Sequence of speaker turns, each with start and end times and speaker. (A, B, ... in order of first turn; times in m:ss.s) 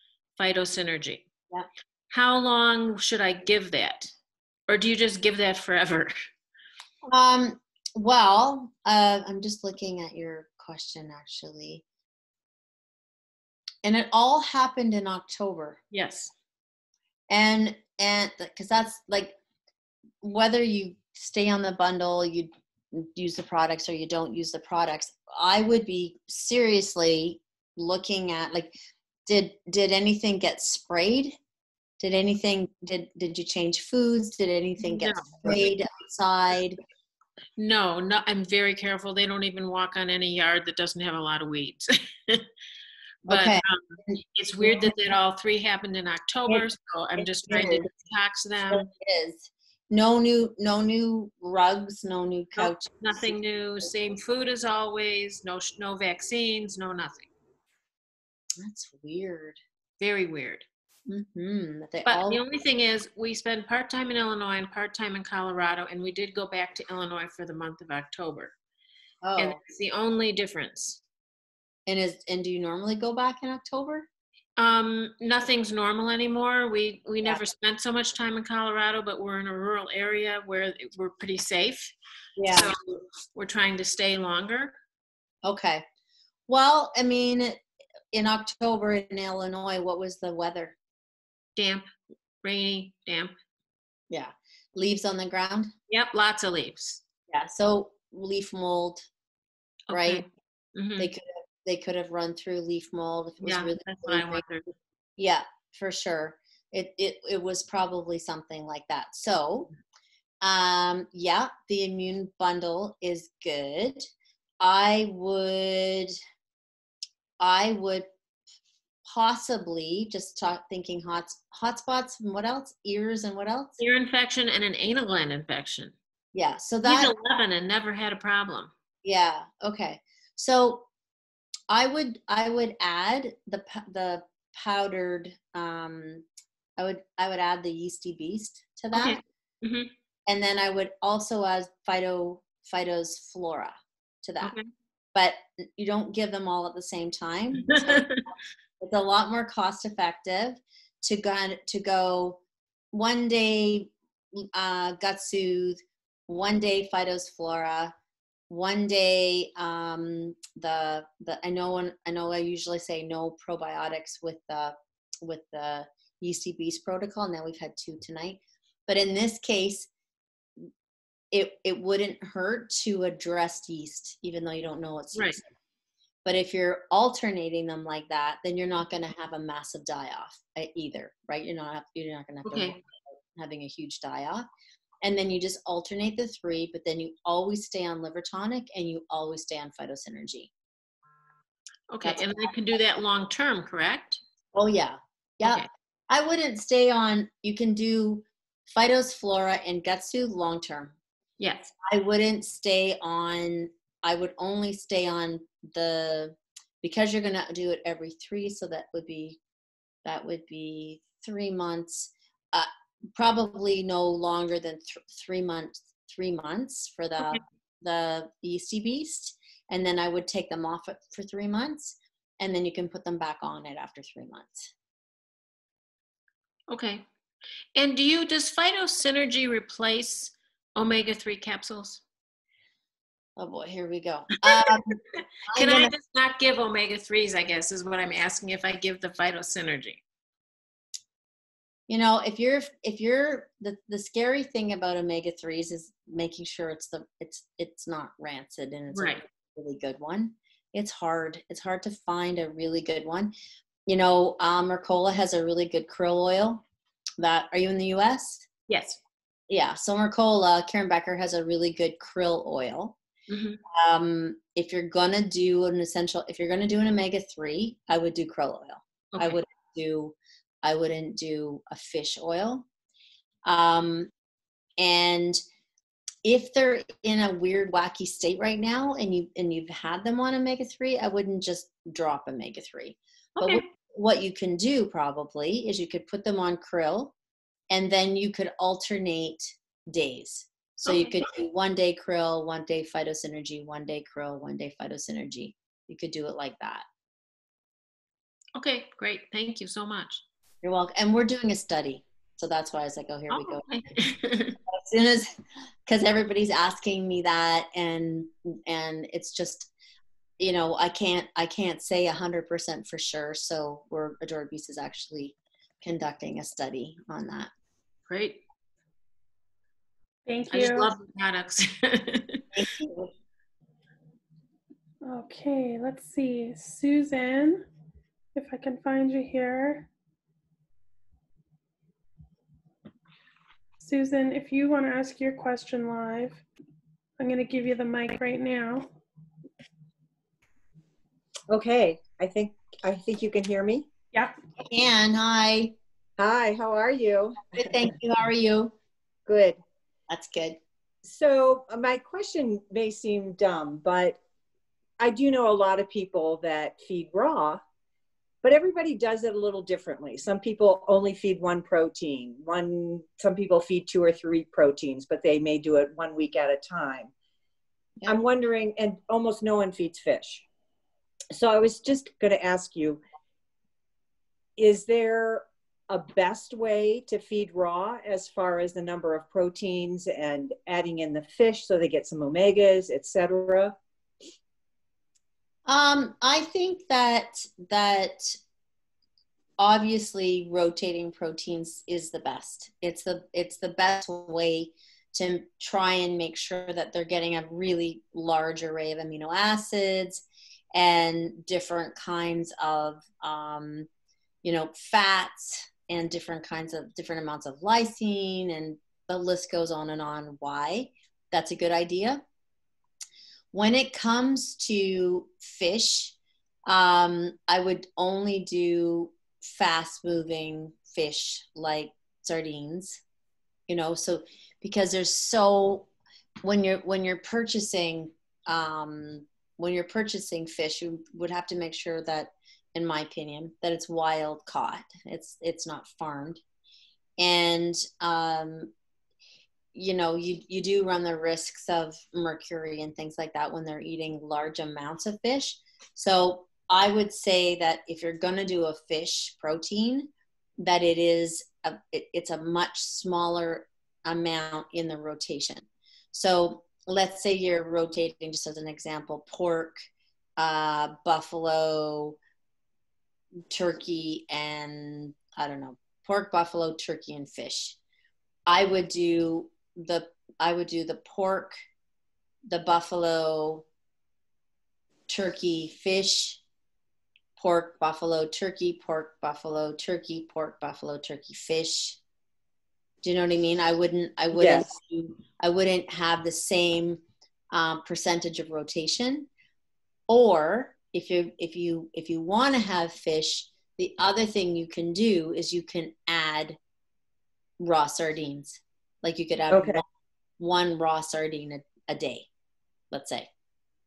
0:00.4-0:01.3 A
0:02.1-0:04.1 A
0:04.7-0:06.1 A
0:07.0-0:11.8 B
0:13.8-0:15.8 B
0:15.9-0:16.3 A
0:17.3-0:19.4 B
0:20.2-0:28.7 B
0:29.3-0:31.4 B
0:32.0-0:36.8 B
0:34.8-0:35.6 A
0:37.6-0:42.5 A
0:43.3-0:45.0 B
0:43.3-0:48.9 A
0:46.5-0:47.9 B
0:48.7-0:53.3 B
0:52.6-0:57.3 A
0:58.6-0:59.6 B
1:00.0-1:00.7 A
1:01.1-1:02.4 B
1:02.1-1:08.5 A
1:09.2-1:09.6 B
1:09.4-1:11.0 A
1:11.9-1:14.1 B
1:14.6-1:21.9 A
1:22.4-1:22.7 B
1:22.5-1:24.8 A
1:25.4-1:25.8 B
1:26.5-1:27.6 B
1:28.1-1:30.8 B
1:31.6-1:31.9 A
1:32.4-1:33.3 A
1:34.1-1:35.7 B
1:35.9-1:37.0 A
1:37.3-1:39.0 B
1:39.9-1:41.1 A
1:39.9-1:40.3 B
1:41.0-1:44.4 B
1:43.4-1:44.7 A
1:45.2-1:49.7 B
1:50.4-1:54.1 B
1:54.6-1:56.2 B
1:57.4-1:58.1 B
1:59.0-2:03.8 B
2:03.8-2:05.9 A
2:06.3-2:07.2 B
2:06.8-2:08.7 A
2:09.0-2:10.9 B
2:11.7-2:16.2 B
2:16.8-2:19.2 B
2:18.9-2:19.9 A
2:20.3-2:24.6 B
2:24.4-2:24.7 A
2:25.2-2:28.2 B
2:27.7-2:28.3 A
2:28.8-2:32.4 B
2:32.9-2:37.9 B
2:38.5-2:49.9 B
2:51.3-2:55.5 B
2:56.2-3:02.8 B
3:02.5-3:02.8 A
3:03.4-3:04.5 B
3:05.0-3:10.5 B
3:11.9-3:14.2 A
3:14.5-3:21.0 B
3:15.4-3:15.7 A
3:21.4-3:21.7 A
3:21.8-3:29.4 B
3:30.0-3:44.7 B
3:46.7-3:47.0 A
3:47.8-3:52.0 A
3:53.4-3:55.9 B
3:55.6-4:00.0 A
4:01.9-4:13.3 B
4:08.9-4:09.2 A
4:13.9-4:16.6 B
4:17.2-4:18.5 B
4:18.7-4:19.0 A
4:19.5-4:23.0 B
4:23.3-4:23.6 A
4:23.7-4:32.7 B
4:29.1-4:29.4 A
4:33.4-4:34.1 B
4:34.8-4:35.4 B
4:36.2-4:47.1 B
4:47.7-4:56.8 B
4:50.8-4:51.2 A
4:58.6-5:00.2 A
5:00.6-5:03.8 B
5:03.3-5:04.6 A
5:04.7-5:09.7 B
5:10.4-5:17.5 B
5:18.1-5:18.4 A
5:20.3-5:20.9 C
5:20.5-5:22.5 A
5:22.5-5:23.1 B
5:25.0-5:27.6 C
5:28.4-5:29.9 C
5:33.8-5:36.4 C
5:37.2-5:38.9 C
5:41.5-5:43.9 D
5:44.6-5:45.8 B
5:46.2-5:47.7 D
5:47.5-5:48.8 B
5:49.3-5:49.6 D
5:50.1-5:50.6 B
5:51.0-5:54.2 D
5:55.0-5:57.6 D
5:58.4-6:07.1 D
6:08.1-6:10.4 D
6:11.3-6:13.0 D
6:14.6-6:23.8 D
6:25.7-6:28.4 B
6:29.6-6:43.9 B
6:44.4-6:52.2 B
6:53.5-6:56.2 B
6:56.7-7:03.0 B
7:03.7-7:05.9 B
7:06.4-7:16.4 B
7:17.2-7:18.7 B
7:19.7-7:39.8 B
7:40.4-7:42.2 B
7:43.5-7:47.8 B
7:48.5-7:51.6 B
7:52.5-7:53.6 B
7:55.1-7:56.4 B
7:57.4-8:02.0 B
8:03.0-8:09.3 B
8:04.4-8:04.7 D
8:10.1-8:16.6 B
8:17.6-8:19.9 B
8:19.5-8:19.8 D
8:20.4-8:22.3 B
8:22.9-8:23.3 B